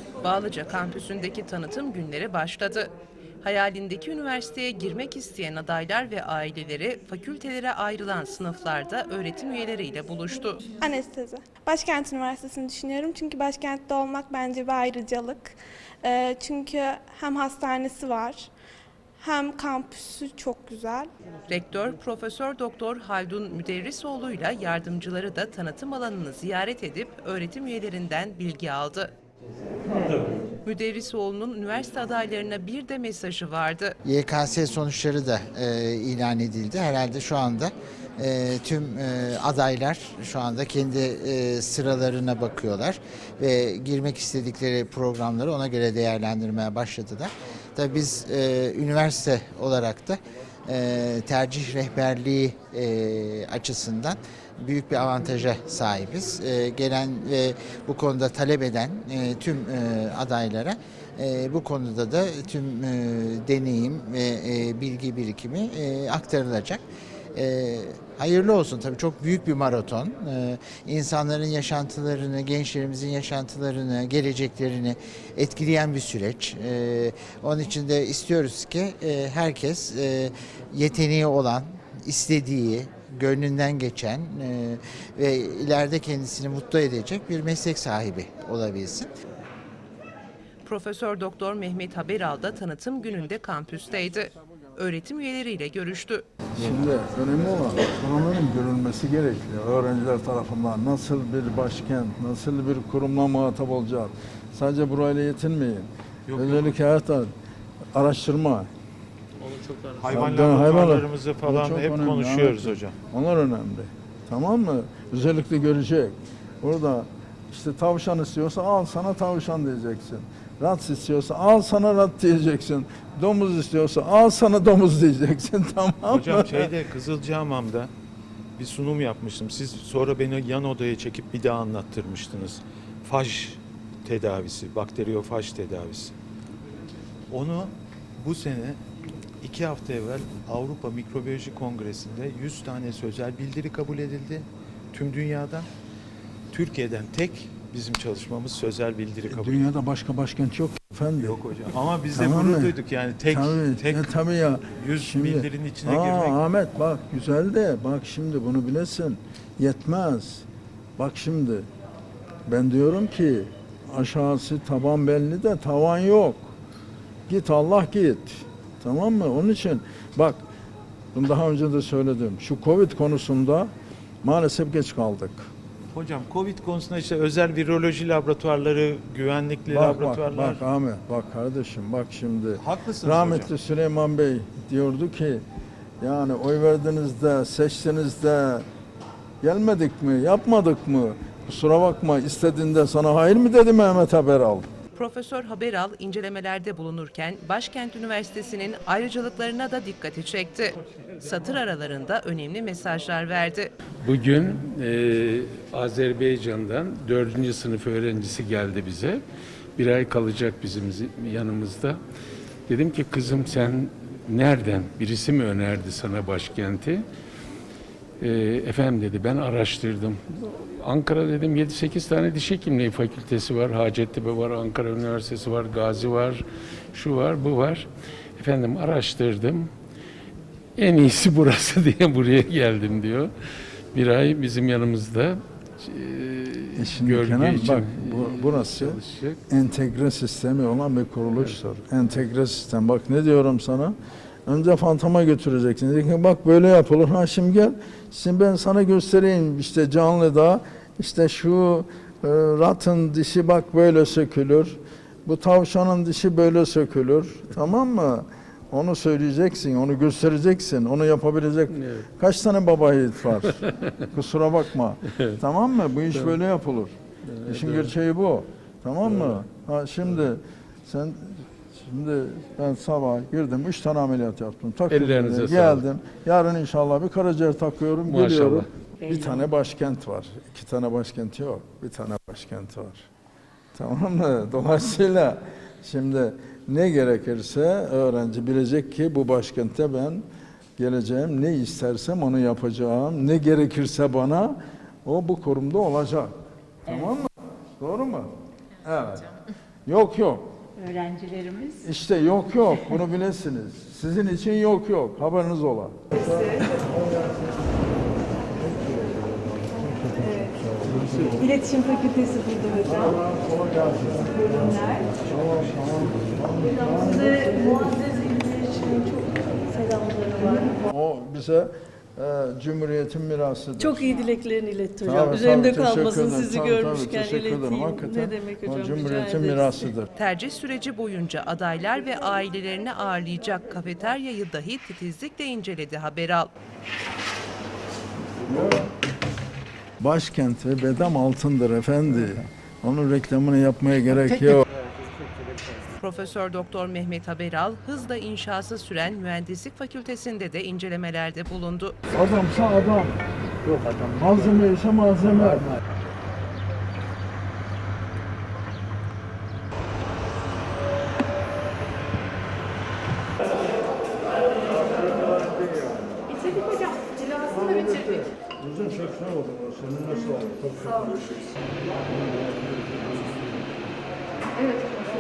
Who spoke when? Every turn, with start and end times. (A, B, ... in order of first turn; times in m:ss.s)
0:00.2-0:10.6 A
0:10.8-0:18.5 B
0:19.2-0:21.1 B
0:21.5-0:29.1 A
0:30.6-0:34.0 A
0:34.0-1:06.8 C
1:07.3-1:29.1 C
1:30.6-1:36.2 A
1:36.6-1:47.3 D
1:46.3-1:46.8 E
1:47.9-1:48.7 D
1:49.5-1:53.0 E
1:50.1-2:06.7 D
2:06.1-2:07.9 E
2:08.6-2:16.2 E
2:17.3-2:18.8 E
2:19.4-2:25.7 E
2:26.5-2:29.7 E
2:29.3-2:31.4 D
2:31.2-2:34.1 E
2:32.1-2:40.4 D
2:34.8-2:36.4 E
2:41.0-2:41.7 D
2:42.5-2:46.5 D
2:47.3-2:50.4 D
2:51.1-2:53.7 D
2:54.2-2:55.5 D
2:55.9-3:00.6 E
2:59.7-3:05.4 D
3:02.6-3:03.5 E
3:06.0-3:08.7 D
3:09.4-3:14.7 D
3:15.0-3:23.7 A
3:24.0-3:29.2 F
3:29.8-3:32.0 F
3:32.7-3:37.0 F
3:38.2-3:46.4 F
3:46.9-3:49.7 F
3:50.8-3:53.3 F
3:53.9-3:59.4 F
3:56.8-4:27.0 D
4:21.7-4:22.0 F
4:27.3-4:27.9 F
4:27.5-4:43.1 D
4:34.9-4:35.8 F
4:38.1-4:38.7 F
4:43.7-4:50.2 D
4:50.8-4:58.3 D
4:58.8-5:00.5 D
5:00.8-5:01.7 G
5:01.7-5:07.4 D
5:08.5-5:11.6 D
5:11.4-5:13.2 G
5:12.8-5:17.8 D
5:16.7-5:20.8 G
5:20.8-5:24.1 D
5:23.8-5:29.8 G
5:25.0-5:30.1 D
5:30.2-5:36.5 A
5:38.5-5:38.9 D
5:40.0-5:44.6 D
5:46.0-5:52.0 A
5:52.1-5:53.2 D
5:53.7-5:55.8 D
6:05.0-6:11.5 D
6:12.1-6:13.6 D